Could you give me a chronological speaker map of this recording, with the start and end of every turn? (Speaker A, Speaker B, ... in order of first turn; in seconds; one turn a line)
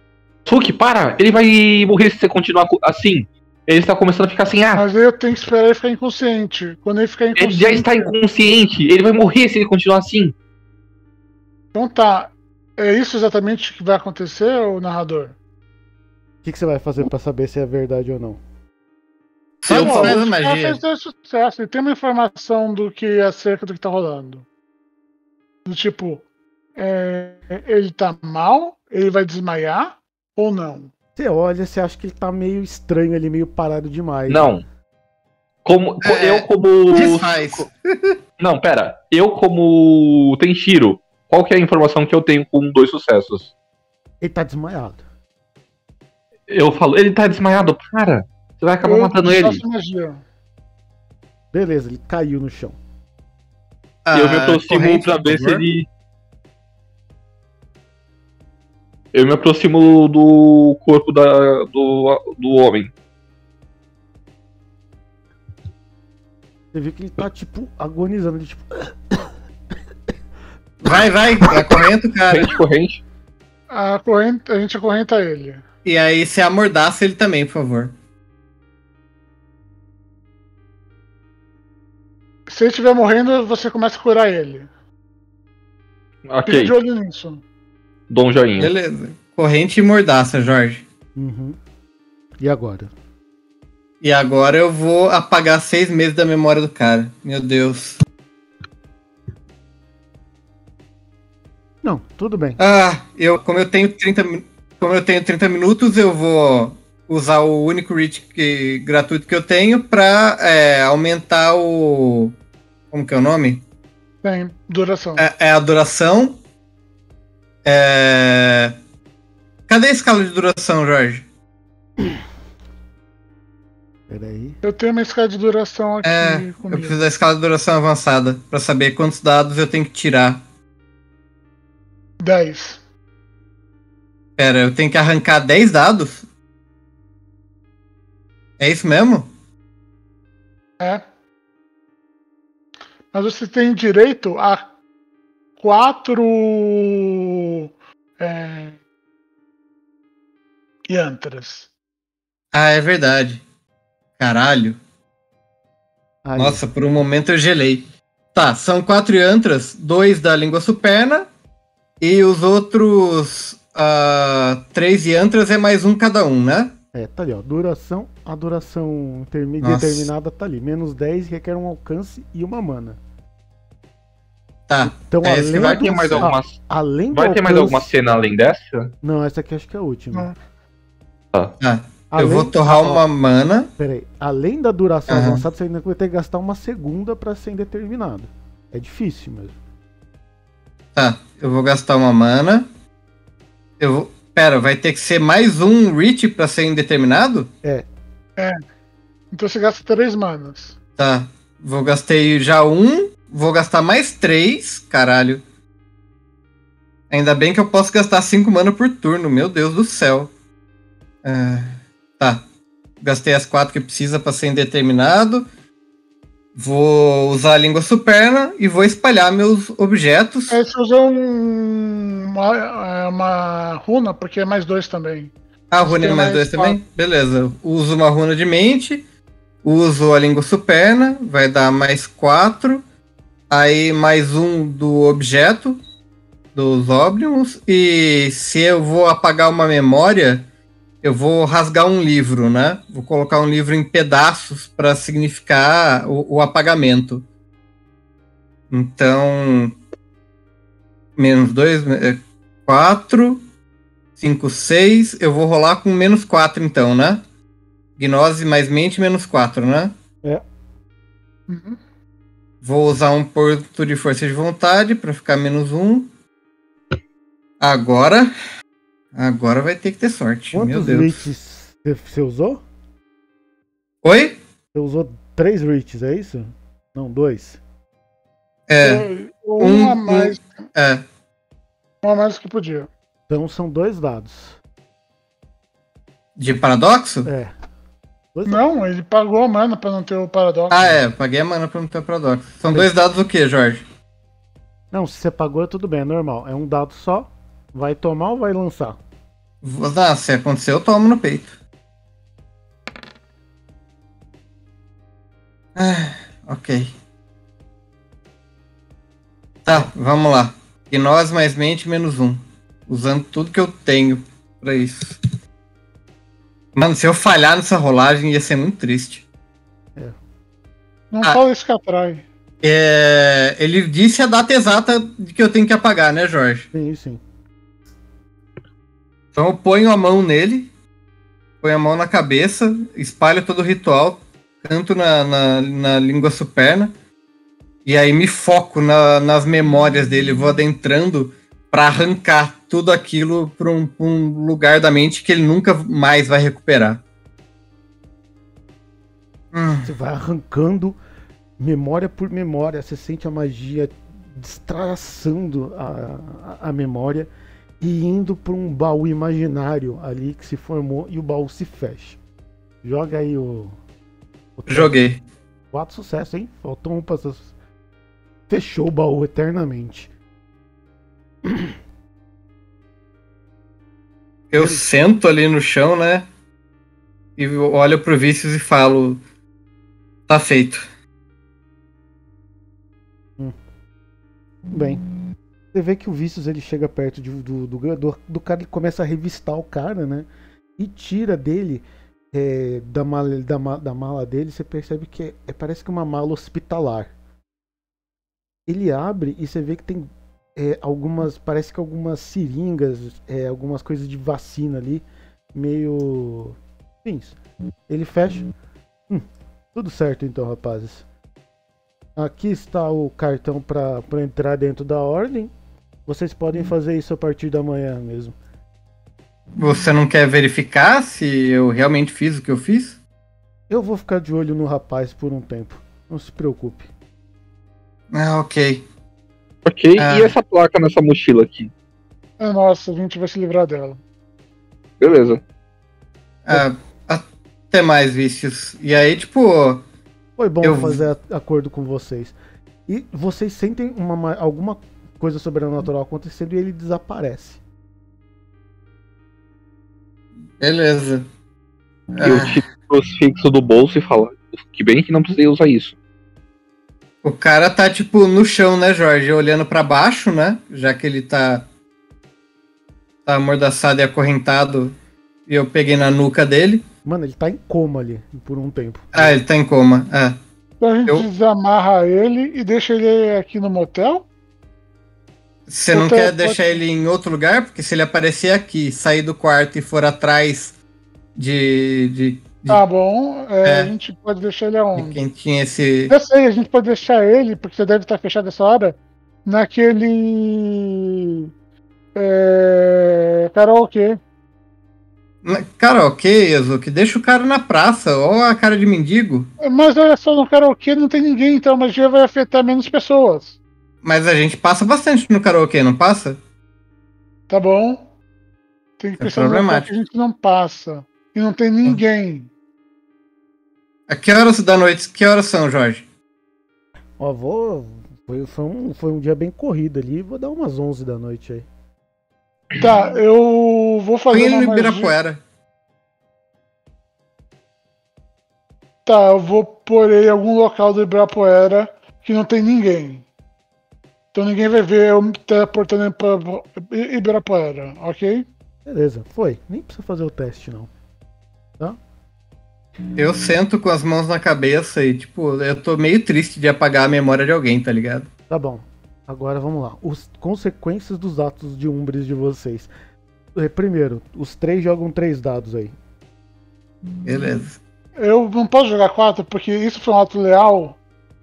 Speaker A: 0.5-4.8
Speaker B: 4.7-8.1
Speaker A: 7.4-10.3
Speaker B: 11.7-15.4
Speaker C: 16.4-18.4
Speaker D: 19.6-20.8
Speaker B: 19.7-24.4
Speaker B: 25.6-26.2
Speaker B: 26.8-30.9
Speaker C: 31.2-34.5
Speaker A: 34.3-34.6
Speaker A: 35.6-37.6
Speaker D: 36.0-38.2
Speaker A: 38.4-43.5
Speaker C: 44.2-45.0
Speaker A: 46.5-49.6
Speaker B: 48.8-50.2
Speaker C: 51.5-52.8
Speaker D: 54.0-55.7
Speaker A: 54.1-55.9
Speaker A: 59.1-62.9
Speaker C: 66.7-69.3
Speaker D: 70.8-72.5
Speaker A: 72.3-73.0
Speaker B: 73.7-75.6
Speaker D: 75.8-77.9
Speaker B: 82.5-84.7
Speaker A: 86.3-86.8
Speaker B: 86.5-87.4
Speaker A: 88.1-88.7
Speaker D: 88.6-90.8
Speaker C: 91.2-91.6
Speaker C: 92.4-92.9
Speaker D: 94.0-98.0
Speaker C: 101.8-102.6
Speaker D: 102.6-112.3
Speaker D: 112.9-113.6
Speaker B: 114.2-115.3
Speaker D: 115.2-116.4
Speaker D: 117.6-118.7
Speaker D: 119.7-121.2
Speaker C: 124.1-124.6
Speaker B: 124.6-127.0
Speaker D: 126.0-130.4
Speaker B: 132.2-132.8
Speaker D: 134.4-136.2
Speaker D: 138.6-139.3
Speaker B: 143.1-144.7
Speaker B: 145.6-148.8
Speaker B: 150.9-151.7
Speaker D: 152.5-153.4
Speaker D: 154.2-154.8
Speaker C: 156.2-156.6
Speaker D: 156.4-161.3
Speaker D: 162.0-166.8
Speaker C: 166.9-173.0
Speaker D: 169.6-170.1
Speaker D: 174.7-176.3
Speaker C: 174.8-177.9
Speaker A: 175.6-176.6
Speaker A: 177.1-178.9
Speaker C: 179.0-180.3
Speaker D: 181.6-183.7
Speaker C: 182.1-183.0
Speaker C: 183.8-189.6
Speaker D: 185.1-185.4
Speaker D: 190.9-192.7
Speaker D: 193.8-197.5
Speaker B: 198.4-198.6
Speaker B: 199.3-200.8
Speaker D: 201.0-205.4
Speaker D: 207.1-210.3
Speaker D: 211.2-212.4
Speaker D: 213.0-215.5
Speaker D: 216.6-220.6
Speaker B: 220.5-226.8
Speaker D: 225.7-229.0
Speaker D: 229.6-232.8
Speaker D: 233.5-235.8
Speaker D: 236.6-240.5
Speaker D: 241.0-247.2
Speaker D: 248.7-249.8
Speaker D: 251.2-253.4
Speaker D: 254.2-257.2
Speaker D: 258.0-259.9
Speaker B: 261.5-261.8
Speaker D: 262.6-266.1
Speaker D: 267.6-268.3
Speaker D: 269.1-271.3
Speaker C: 270.5-272.6
Speaker D: 274.0-274.4
Speaker C: 274.7-277.6
Speaker D: 278.7-279.1
Speaker B: 278.8-280.5
Speaker D: 279.6-281.0
Speaker B: 282.0-282.9
Speaker C: 283.3-284.6
Speaker D: 286.4-287.3
Speaker C: 287.2-287.5
Speaker C: 288.4-288.6
Speaker B: 288.5-291.0
Speaker D: 290.7-293.8
Speaker C: 294.9-299.0
Speaker D: 299.6-301.5
Speaker D: 305.8-306.9
Speaker D: 309.6-315.2
Speaker D: 316.8-319.2
Speaker B: 321.1-322.2
Speaker D: 322.6-326.7
Speaker C: 326.7-327.2
Speaker D: 329.3-330.7
Speaker D: 331.6-336.9
Speaker D: 337.9-347.0
Speaker D: 349.5-349.9
Speaker C: 349.8-351.0
Speaker C: 351.6-357.3
Speaker C: 357.8-362.2
Speaker C: 362.8-363.8
Speaker C: 364.6-365.0
Speaker D: 364.7-365.2
Speaker C: 365.7-367.5
Speaker C: 368.5-370.1
Speaker C: 371.4-371.8
Speaker D: 374.5-376.3
Speaker C: 374.6-374.8
Speaker D: 377.4-379.2
Speaker D: 380.3-380.9
Speaker C: 384.7-385.1
Speaker C: 385.7-397.1
Speaker C: 398.7-405.0
Speaker C: 405.6-408.5
Speaker C: 409.1-411.1
Speaker C: 412.2-415.5
Speaker C: 416.1-418.4
Speaker D: 419.6-423.0
Speaker C: 423.7-426.9
Speaker D: 428.1-428.8
Speaker A: 429.7-431.7
Speaker D: 430.0-430.3
Speaker B: 432.4-434.0
Speaker A: 435.0-435.4
Speaker D: 436.4-439.8
Speaker C: 440.4-442.4
Speaker D: 440.6-441.0
Speaker C: 442.9-447.6
Speaker D: 450.6-451.3
Speaker D: 452.1-452.6
Speaker A: 452.2-456.0
Speaker D: 457.2-461.7
Speaker D: 463.3-464.9
Speaker D: 465.5-466.8
Speaker C: 467.1-469.3
Speaker D: 469.1-470.4
Speaker B: 470.8-474.3
Speaker D: 475.7-480.8
Speaker B: 475.9-476.8
Speaker D: 481.4-482.8
Speaker B: 482.7-485.2
Speaker D: 483.6-483.9
Speaker D: 485.0-486.1
Speaker B: 486.1-491.5
Speaker B: 492.1-494.2
Speaker D: 495.4-499.5
Speaker B: 499.6-503.6
Speaker D: 504.0-506.4
Speaker B: 507.5-508.0
Speaker B: 509.0-512.5
Speaker D: 509.2-509.9
Speaker D: 514.1-516.0
Speaker C: 517.2-521.7
Speaker B: 522.8-525.1
Speaker D: 524.3-525.4
Speaker B: 529.0-533.3
Speaker B: 534.3-538.5
Speaker C: 538.9-540.9
Speaker D: 543.2-548.3
Speaker C: 548.5-552.9
Speaker C: 553.5-555.9
Speaker D: 557.2-557.8
Speaker B: 558.2-561.0